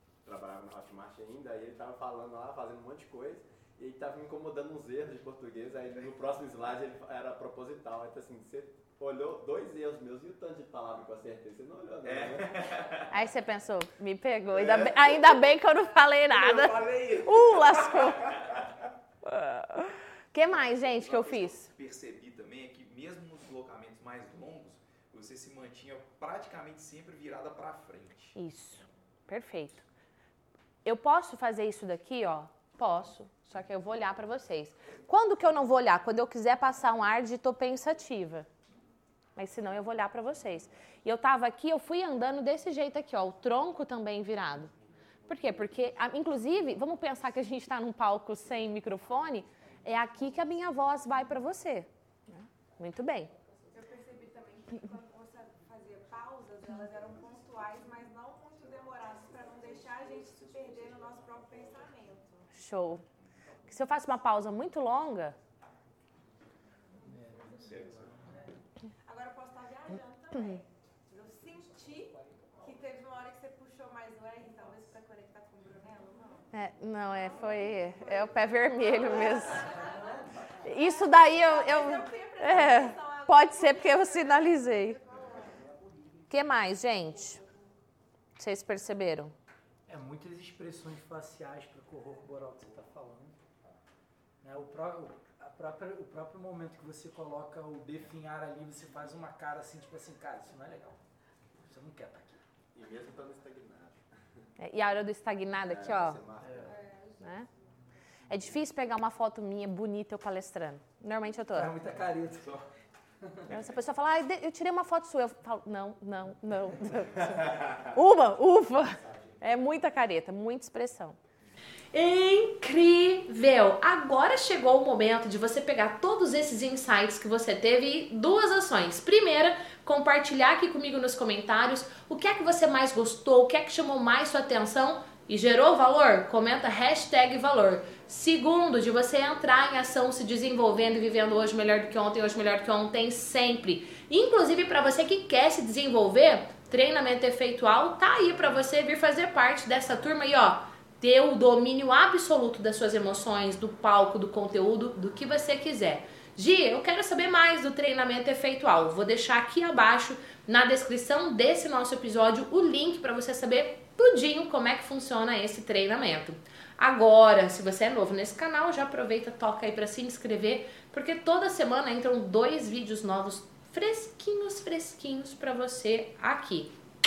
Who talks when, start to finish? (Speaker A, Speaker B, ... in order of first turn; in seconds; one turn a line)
Speaker A: 0.2-12.7
Speaker B: 12.0-13.1
Speaker C: 13.1-18.6
Speaker A: 14.8-15.1
Speaker B: 16.3-18.1
Speaker C: 19.2-21.7
Speaker B: 21.0-28.3
Speaker C: 28.3-29.9
Speaker C: 30.8-38.5
Speaker C: 39.4-44.7
Speaker C: 45.3-53.3
Speaker D: 53.7-62.4
Speaker C: 62.5-63.0
Speaker C: 63.7-65.3
Speaker E: 67.0-68.5
Speaker B: 67.6-68.1
Speaker D: 69.1-76.5
Speaker C: 70.3-70.6
Speaker C: 76.5-79.8
Speaker D: 79.3-79.9
Speaker C: 80.6-85.0
Speaker D: 80.7-85.6
Speaker C: 86.3-87.4
Speaker C: 88.4-89.3
Speaker E: 89.9-93.3
Speaker E: 94.4-101.0
Speaker E: 101.6-102.4
Speaker A: 102.7-104.0
Speaker C: 104.6-106.2
Speaker A: 105.6-106.8
Speaker E: 106.4-106.7
Speaker D: 106.7-107.2
Speaker C: 107.2-107.5
Speaker C: 108.3-111.7
Speaker E: 111.5-112.7
Speaker C: 113.5-121.2
Speaker C: 121.9-176.7